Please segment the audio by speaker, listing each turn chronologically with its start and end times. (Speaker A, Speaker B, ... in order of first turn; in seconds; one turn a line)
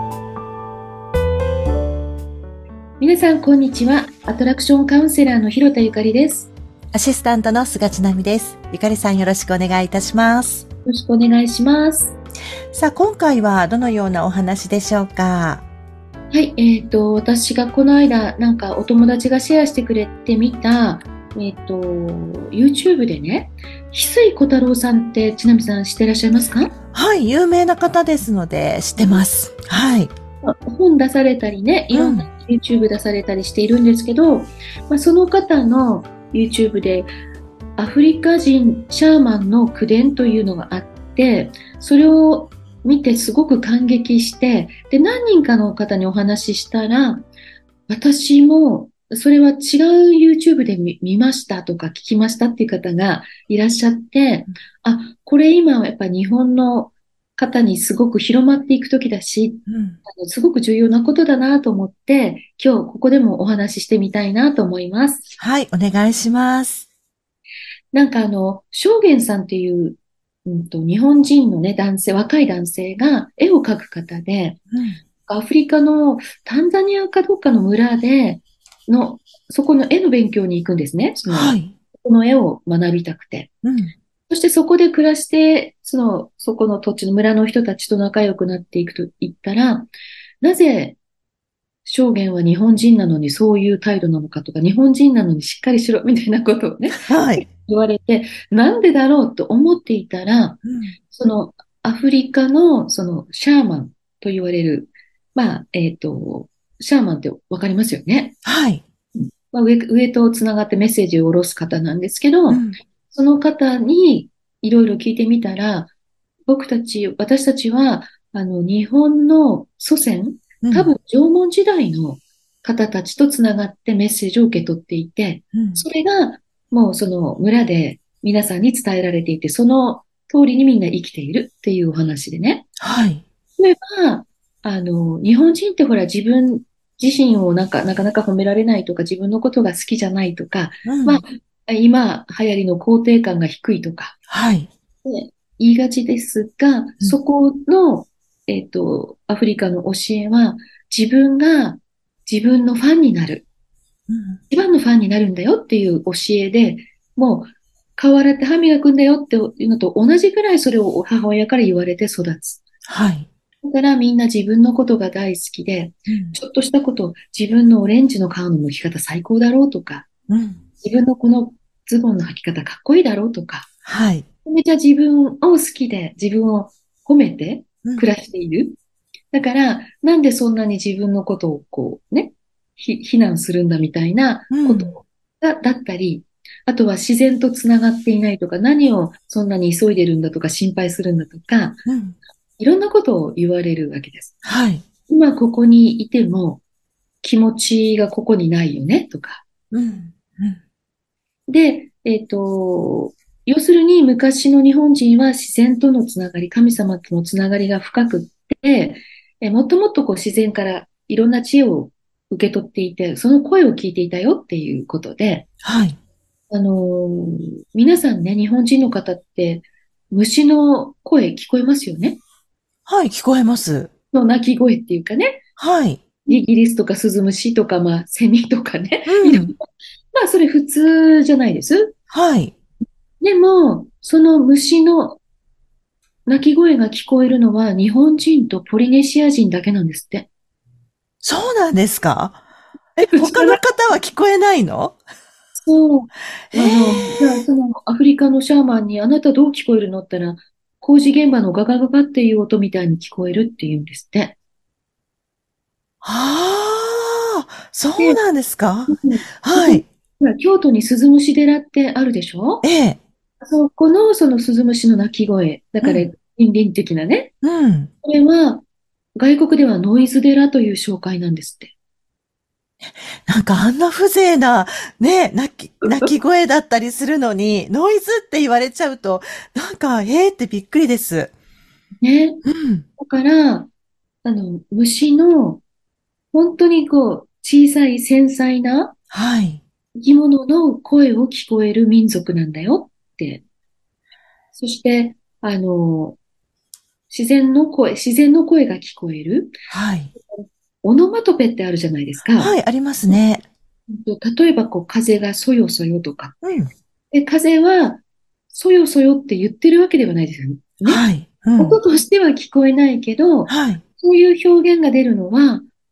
Speaker A: 3.0-6.5
Speaker B: 6.9-10.7
Speaker A: 10.8-12.2
Speaker B: 12.7-15.6
Speaker A: 16.3-26.7
Speaker B: 26.9-30.1
Speaker A: 29.0-29.2
Speaker A: 30.4-37.1
Speaker B: 31.9-32.3
Speaker A: 37.8-47.2
Speaker A: 47.9-65.4
Speaker B: 59.7-60.0
Speaker B: 65.4-66.9
Speaker A: 67.9-74.6
Speaker B: 74.7-75.0
Speaker A: 75.2-83.5
Speaker B: 81.3-81.7
Speaker B: 83.6-83.9
Speaker A: 84.3-89.9
Speaker A: 90.4-91.0
Speaker A: 91.8-108.4
Speaker B: 97.0-97.4
Speaker B: 100.6-100.9
Speaker B: 108.4-108.8
Speaker A: 109.2-115.9
Speaker B: 112.5-112.8
Speaker A: 116.5-132.7
Speaker B: 120.6-120.9
Speaker B: 125.5-125.8
Speaker B: 132.8-133.2
Speaker A: 133.6-144.2
Speaker B: 140.8-141.2
Speaker B: 144.3-144.7
Speaker A: 145.0-153.4
Speaker B: 154.1-154.4
Speaker A: 154.5-162.6
Speaker B: 162.8-163.3
Speaker A: 163.6-170.1
Speaker B: 166.1-166.4
Speaker B: 170.3-170.6
Speaker A: 170.8-173.7
Speaker B: 173.8-174.2
Speaker A: 174.4-178.8
Speaker A: 179.3-191.8
Speaker B: 184.5-184.9
Speaker B: 191.8-192.2
Speaker A: 192.6-194.4
Speaker B: 194.4-194.8
Speaker A: 195.1-196.6
Speaker A: 197.2-199.4
Speaker B: 199.7-200.6
Speaker A: 201.5-215.5
Speaker B: 215.6-216.0
Speaker A: 216.5-222.2
Speaker B: 222.9-223.9
Speaker A: 224.1-225.4
Speaker B: 225.6-226.0
Speaker A: 226.2-229.5
Speaker B: 229.1-229.5
Speaker A: 230.1-231.9
Speaker B: 232.1-232.5
Speaker A: 233.2-235.2
Speaker A: 236.2-240.3
Speaker B: 241.2-242.4
Speaker B: 243.0-245.0
Speaker A: 243.0-243.6
Speaker A: 245.6-254.3
Speaker B: 246.5-247.4
Speaker B: 256.0-259.9
Speaker A: 258.9-262.6
Speaker B: 262.6-263.0
Speaker A: 263.4-267.3
Speaker B: 265.8-266.1
Speaker B: 267.4-267.9
Speaker A: 268.0-268.6
Speaker A: 269.1-271.7
Speaker B: 272.9-281.3
Speaker A: 275.8-276.1
Speaker A: 282.0-282.4
Speaker B: 282.4-282.8
Speaker A: 283.0-283.7
Speaker A: 284.2-285.6
Speaker A: 286.3-288.9
Speaker B: 289.1-289.6
Speaker A: 290.0-293.4
Speaker A: 294.5-296.2
Speaker A: 297.1-299.6
Speaker B: 299.7-300.1
Speaker A: 300.1-302.5
Speaker B: 302.4-303.4
Speaker A: 303.9-306.4
Speaker B: 306.4-306.7
Speaker A: 307.1-311.0
Speaker B: 310.9-311.8
Speaker A: 311.6-315.6
Speaker B: 313.5-313.8